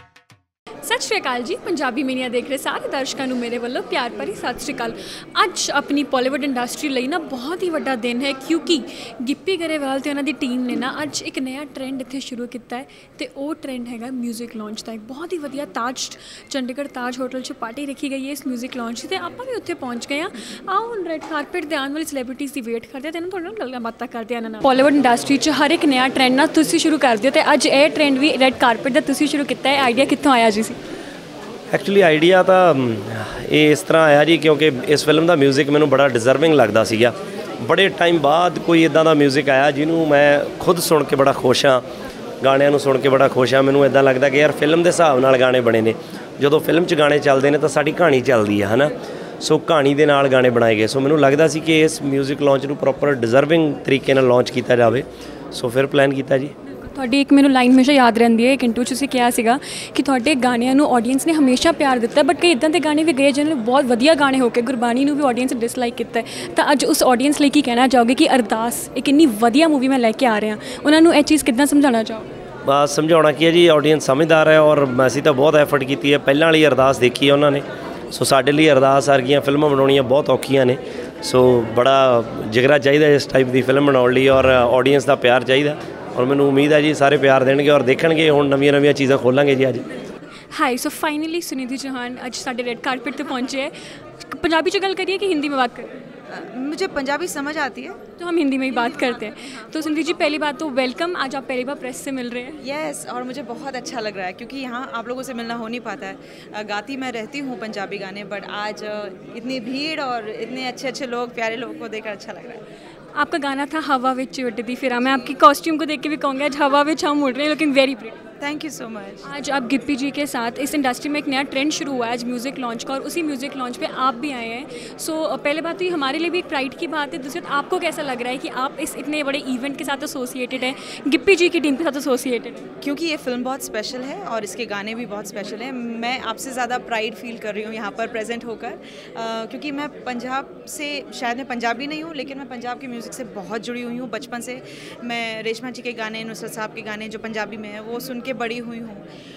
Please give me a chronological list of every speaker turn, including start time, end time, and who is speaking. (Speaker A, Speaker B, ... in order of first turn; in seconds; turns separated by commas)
Speaker A: 0.8-30.8, Speaker B: 31.7-41.9, Speaker B: 42.4-56.5, Speaker A: 56.8-72.3, Speaker B: 72.6-89.8, Speaker A: 90.5-95.9, Speaker C: 96.3-98.0, Speaker A: 98.2-102.6, Speaker C: 98.7-99.8, Speaker C: 102.6-112.6, Speaker A: 113.1-118.2, Speaker C: 118.4-119.2, Speaker A: 119.2-132.7, Speaker C: 132.8-149.0